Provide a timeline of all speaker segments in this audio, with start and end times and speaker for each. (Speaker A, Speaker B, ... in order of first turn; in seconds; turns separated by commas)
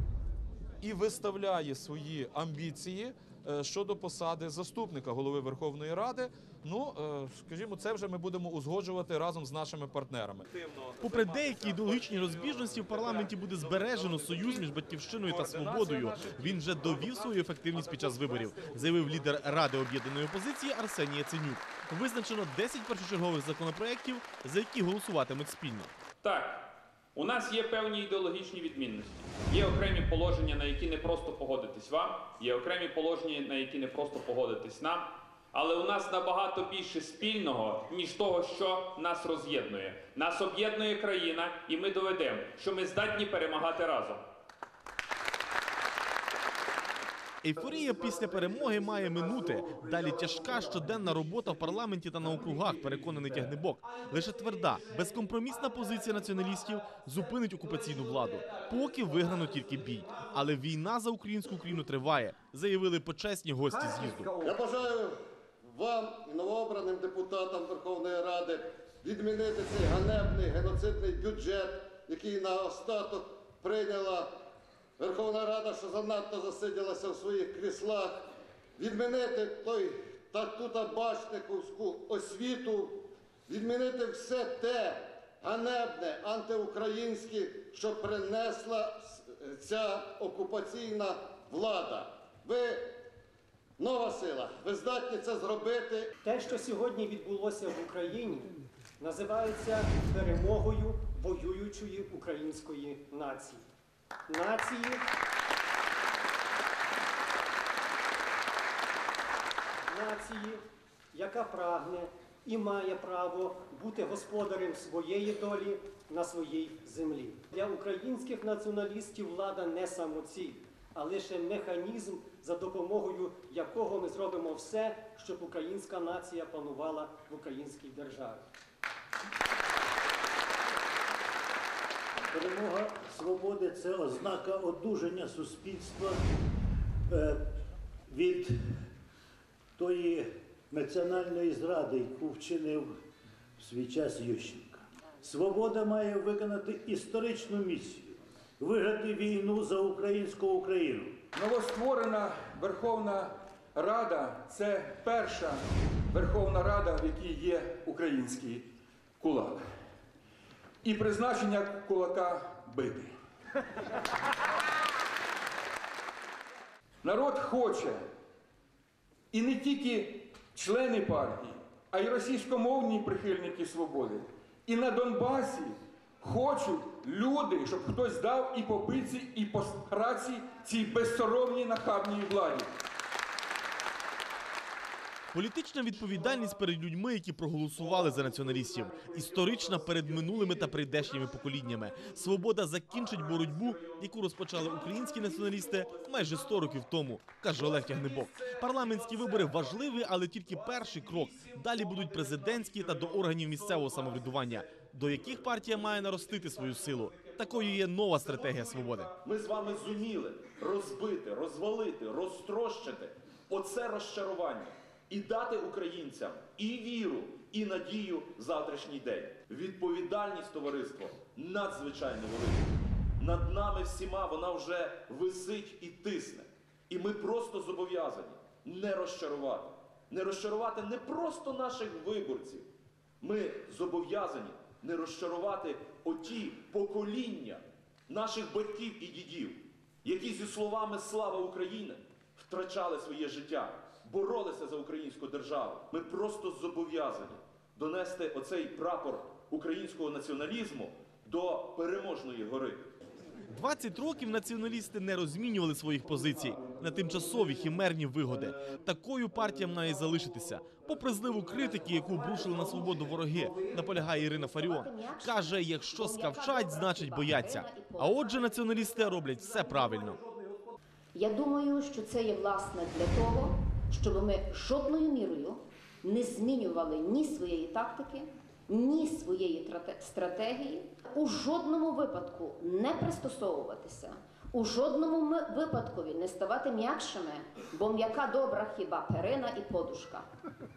Speaker A: 0.8-2.9, Speaker B: 2.9-3.5, Speaker A: 3.5-6.9, Speaker B: 6.0-6.3, Speaker B: 7.0-7.6, Speaker A: 7.6-14.7, Speaker B: 8.3-9.2, Speaker C: 11.0-25.9, Speaker A: 15.2-18.8, Speaker D: 26.2-44.2, Speaker C: 47.4-64.4, Speaker E: 64.4-65.1, Speaker E: 65.7-74.3, Speaker E: 75.0-92.9, Speaker E: 93.8-96.1, Speaker F: 96.2-103.6, Speaker F: 104.3-105.0, Speaker F: 109.9-110.6, Speaker F: 111.1-128.4, Speaker G: 132.3-136.2, Speaker G: 137.1-137.4, Speaker G: 138.1-138.5, Speaker G: 139.8-142.9, Speaker G: 143.6-151.1, Speaker H: 151.3-158.7, Speaker H: 159.2-159.7, Speaker H: 160.8-163.2, Speaker H: 167.0-168.1, Speaker H: 169.3-182.7, Speaker C: 185.3-209.1, Speaker A: 209.2-232.7, Speaker A: 233.2-252.9, Speaker C: 253.5-270.2, Speaker I: 264.4-268.7, Speaker I: 271.1-290.2